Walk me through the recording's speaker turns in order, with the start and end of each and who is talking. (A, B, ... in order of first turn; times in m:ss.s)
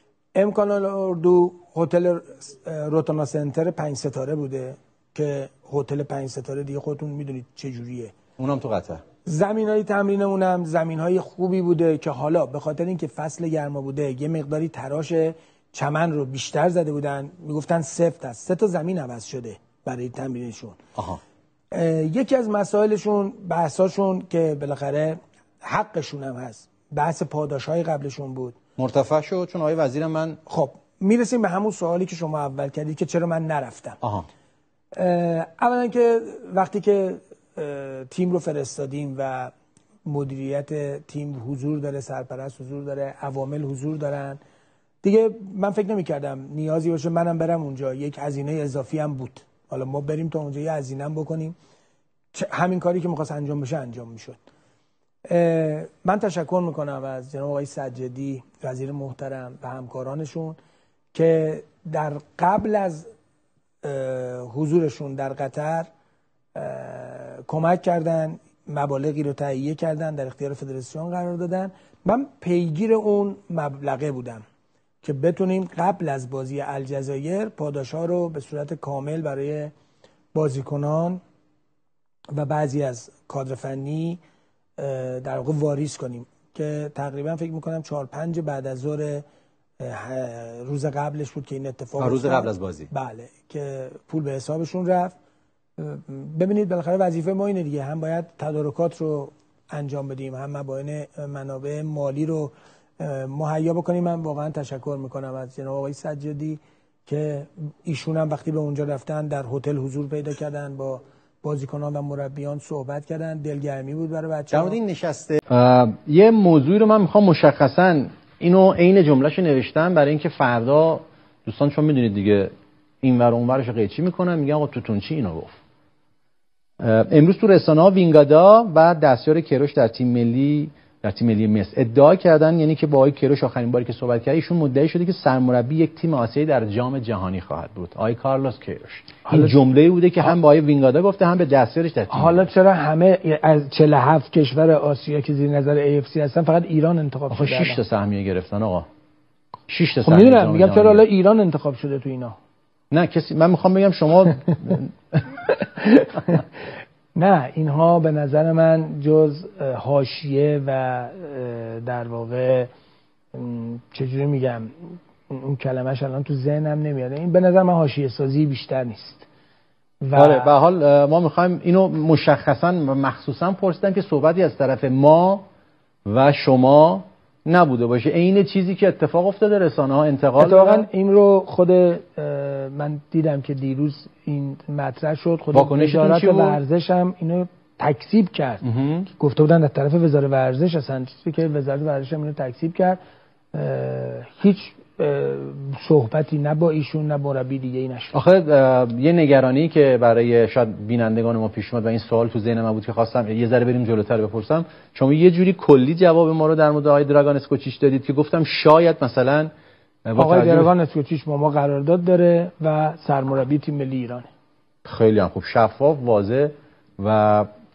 0:00.3-0:08.1 A
0:08.4-0:09.0 B
0:09.2-0:20.8 A
0:21.0-0:21.2 B
0:21.7-0:28.6 A
0:28.8-0:30.4 B
0:30.4-0:34.0 A
0:34.0-0:34.3 B
0:34.9-0:39.5 A
0:40.0-0:44.4 A
0:45.0-0:51.5 A
0:52.3-0:54.4 A
0:55.3-1:00.6 A
1:01.1-1:03.0 A
1:03.8-1:05.9 A
1:06.5-1:14.4 A
1:15.0-1:19.7 A
1:20.3-1:21.2 A
1:22.3-1:24.2 A
1:24.8-1:29.2 A
1:29.8-1:35.1 A
1:32.0-1:32.9 B
1:35.8-1:54.8 A
1:54.5-2:05.6 B
2:06.8-2:22.5 B
2:19.2-2:19.6 A
2:22.1-2:27.8 A
2:27.3-2:28.8 B
2:29.7-2:31.0 B
2:30.0-2:32.4 A
2:32.9-2:35.2 B
2:35.8-2:36.4 A
2:37.1-2:42.7 A
2:43.3-2:49.3 A
2:50.0-2:50.5 A
2:50.1-2:55.4 B
2:56.0-3:00.9 B
3:00.4-3:13.0 A
3:05.5-3:06.6 B
3:08.6-3:09.1 B
3:13.5-3:18.1 A
3:18.1-3:29.5 B
3:30.0-3:30.7 B
3:30.2-3:34.3 A
3:34.8-3:37.5 B